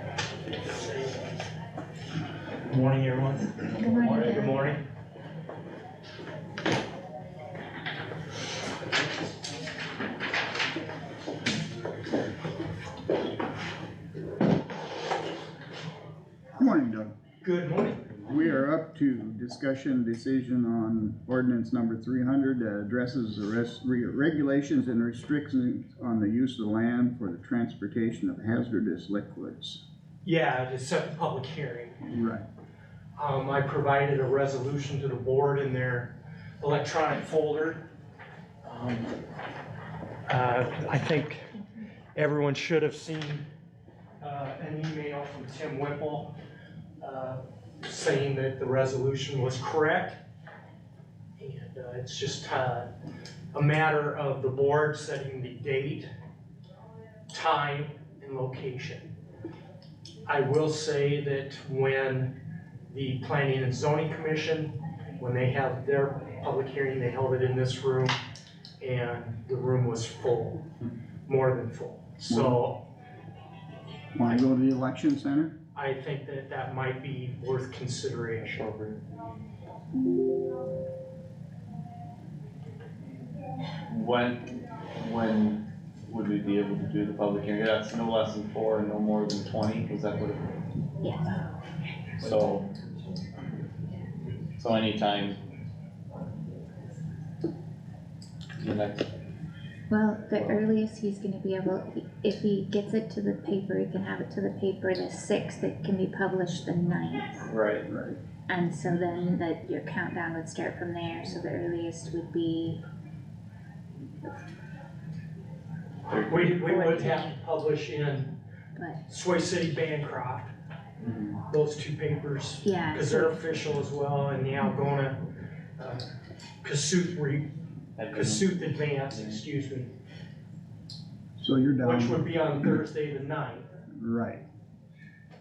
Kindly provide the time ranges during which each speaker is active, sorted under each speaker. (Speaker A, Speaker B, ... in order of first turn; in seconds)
Speaker A: 0.7-1.3, 2.7-4.8, 17.4-18.2, 30.2-32.0, 33.1-37.9, 38.6-39.1, 40.3-41.5, 42.1-43.4, 44.2-46.3, 47.0-50.2, 51.4-52.9, 53.5-56.1, 57.3-59.1, 60.2-62.4, 62.9-68.2, 68.8-70.6, 71.2-72.8, 75.7-78.7, 116.1-118.3, 119.1-120.5, 121.4-125.2, 125.8-126.0, 126.6-127.5, 128.1-129.9, 131.8-133.7
Speaker B: 3.7-4.7, 91.0-91.4, 99.9-107.5, 108.5-112.8, 116.5-117.3, 122.6-123.4
Speaker C: 16.6-17.1, 18.2-29.8, 32.0-32.4, 72.3-72.6, 74.1-75.5, 107.9-108.2, 131.4-132.8, 133.9-134.4
Speaker D: 78.6-79.0, 83.9-90.5, 92.2-92.6, 94.6-95.4, 98.6-99.1, 107.5-107.9, 116.1-116.6, 128.0-129.4